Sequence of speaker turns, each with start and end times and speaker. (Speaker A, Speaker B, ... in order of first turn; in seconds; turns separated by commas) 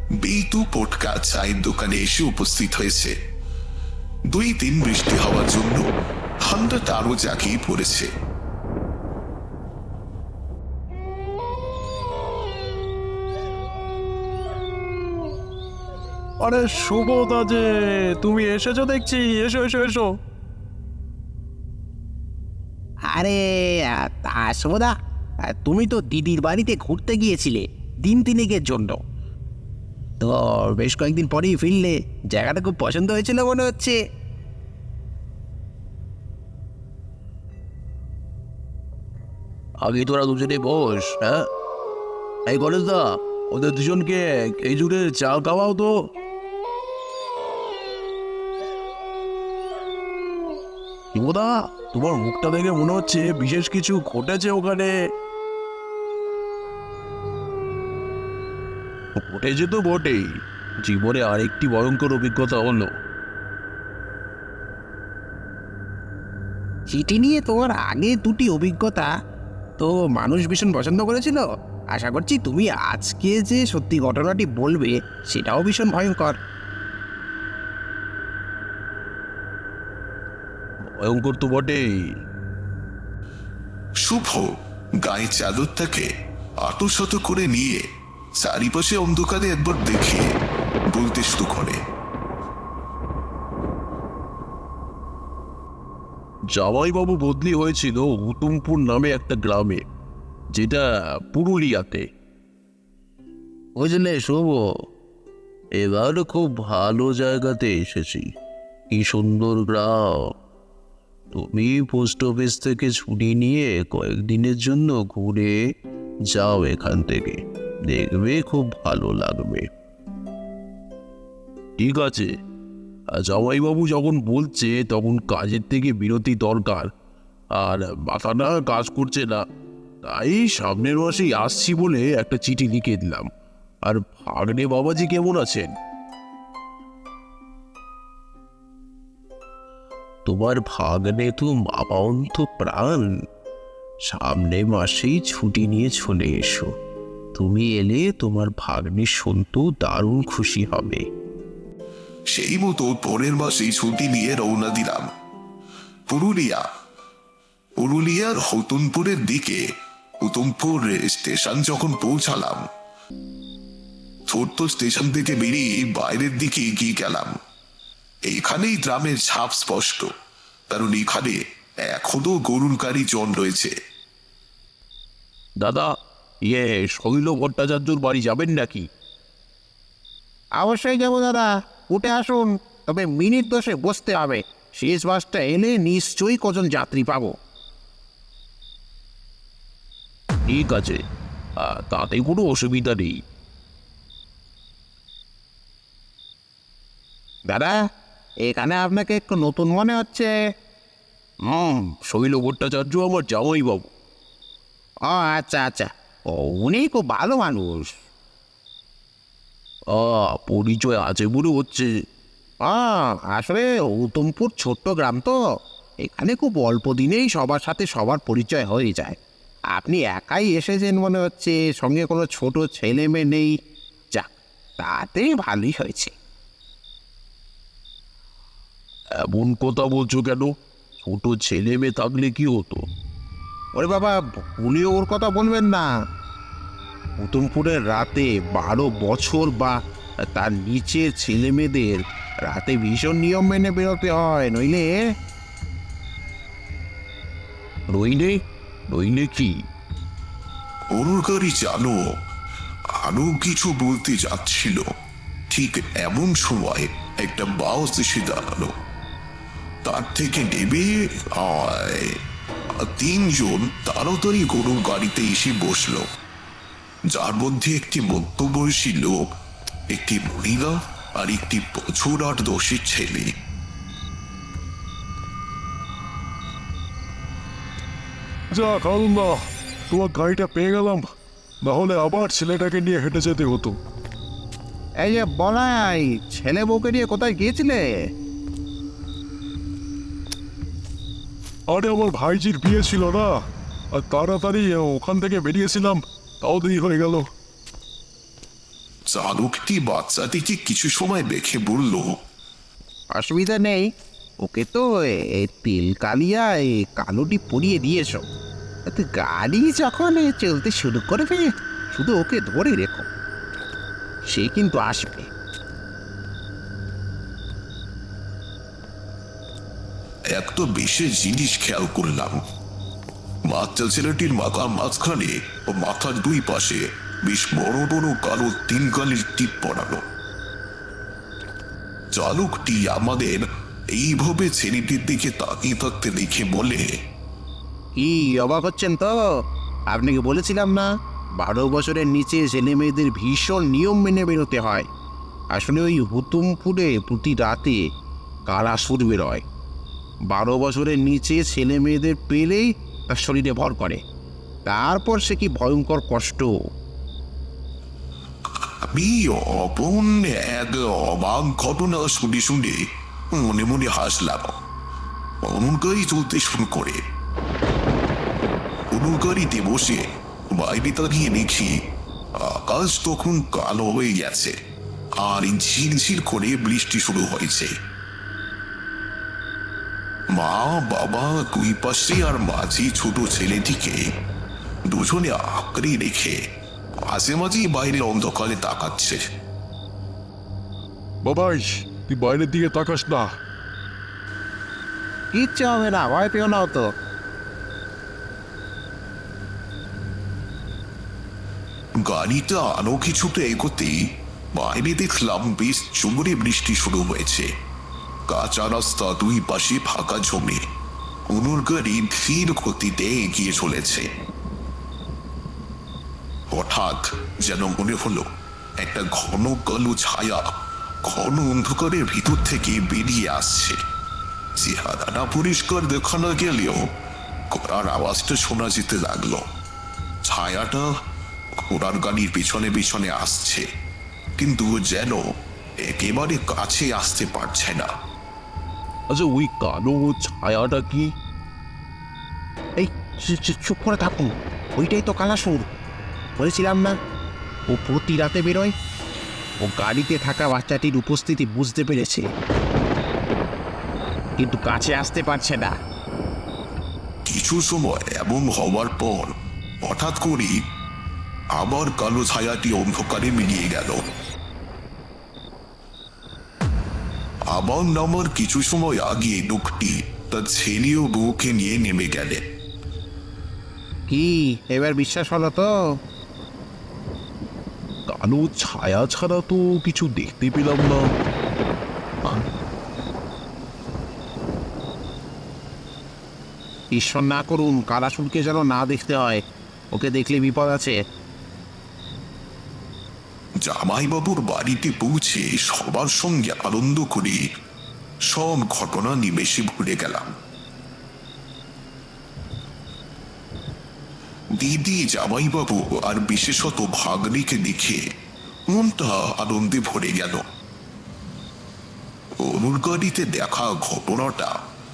Speaker A: 0.2-3.1, Speaker A: 4.3-5.8, Speaker A: 6.4-8.1, Speaker B: 16.4-20.1, Speaker C: 23.1-24.9, Speaker C: 25.4-29.0, Speaker C: 30.2-34.0, Speaker B: 39.8-41.4, Speaker B: 42.5-46.1, Speaker B: 51.1-54.9, Speaker B: 59.2-60.3, Speaker B: 60.8-62.9, Speaker C: 66.9-69.1, Speaker C: 69.8-76.4, Speaker B: 81.0-81.9, Speaker A: 84.0-86.1, Speaker A: 86.6-87.8, Speaker A: 88.4-90.3, Speaker A: 90.9-91.8, Speaker B: 96.5-99.8, Speaker B: 100.5-102.0, Speaker B: 103.8-104.6, Speaker B: 105.8-108.3, Speaker B: 108.9-110.3, Speaker B: 111.3-115.5, Speaker B: 116.3-117.4, Speaker B: 117.9-119.6, Speaker B: 121.8-122.3, Speaker B: 123.1-126.9, Speaker B: 127.5-129.4, Speaker B: 130.0-133.3, Speaker B: 133.8-135.7, Speaker B: 140.2-143.1, Speaker B: 144.1-146.7, Speaker B: 147.3-151.0, Speaker A: 152.3-155.1, Speaker A: 156.1-156.7, Speaker A: 157.8-159.6, Speaker A: 160.2-162.7, Speaker A: 164.3-167.4, Speaker A: 168.2-170.1, Speaker A: 170.7-173.7, Speaker B: 175.6-175.9, Speaker B: 176.4-178.9, Speaker C: 180.6-187.3, Speaker B: 190.5-191.0, Speaker B: 191.6-193.2, Speaker C: 197.5-197.8, Speaker C: 198.4-200.3, Speaker B: 201.5-203.9, Speaker C: 205.1-208.0, Speaker B: 209.9-211.9, Speaker C: 212.6-215.4, Speaker C: 216.0-219.2, Speaker C: 219.7-223.6, Speaker C: 224.1-226.1, Speaker B: 229.2-232.8, Speaker C: 233.8-235.9, Speaker C: 237.2-244.9, Speaker B: 247.9-249.5, Speaker A: 250.9-252.0, Speaker A: 253.0-254.9, Speaker A: 255.5-258.7, Speaker A: 259.8-262.2, Speaker A: 262.8-266.1, Speaker A: 267.1-269.3, Speaker A: 269.9-273.3, Speaker D: 278.5-281.1, Speaker D: 281.6-283.8, Speaker C: 285.0-287.9, Speaker D: 291.7-293.4, Speaker D: 293.9-297.3, Speaker A: 299.1-302.2, Speaker C: 303.1-303.9, Speaker C: 304.4-308.2, Speaker C: 308.9-313.1, Speaker C: 314.3-315.3, Speaker A: 320.3-322.4, Speaker A: 323.5-330.0, Speaker A: 332.1-336.9, Speaker C: 338.0-339.3, Speaker C: 339.9-340.9, Speaker C: 341.4-344.9, Speaker C: 345.5-347.8, Speaker C: 348.5-349.4, Speaker C: 350.3-354.0, Speaker C: 354.6-356.5, Speaker A: 358.6-364.6, Speaker A: 365.4-367.0, Speaker A: 368.9-371.8, Speaker A: 372.4-374.6, Speaker A: 375.2-377.7, Speaker A: 380.3-384.1, Speaker A: 384.9-386.4, Speaker A: 387.1-389.2, Speaker D: 391.2-393.3, Speaker C: 395.3-396.9, Speaker A: 402.0-404.0, Speaker A: 404.5-407.5, Speaker A: 408.3-410.6, Speaker A: 411.3-414.1, Speaker A: 416.5-418.3, Speaker A: 418.8-420.4, Speaker A: 421.0-423.8, Speaker A: 424.6-426.9, Speaker A: 427.5-429.4, Speaker A: 430.2-430.9, Speaker A: 431.7-433.6, Speaker A: 434.4-435.2, Speaker A: 435.8-437.9, Speaker B: 439.1-441.1, Speaker C: 442.8-445.6, Speaker C: 446.4-446.9, Speaker C: 447.7-448.7, Speaker C: 449.6-452.3, Speaker C: 454.4-455.7, Speaker A: 457.2-460.6, Speaker A: 461.5-464.0, Speaker A: 467.5-472.4, Speaker C: 474.1-475.7, Speaker B: 478.1-481.0, Speaker C: 486.9-489.4, Speaker C: 489.9-490.9, Speaker A: 493.6-497.4, Speaker A: 498.3-500.3, Speaker A: 504.5-508.0, Speaker A: 508.7-510.4, Speaker A: 512.4-514.6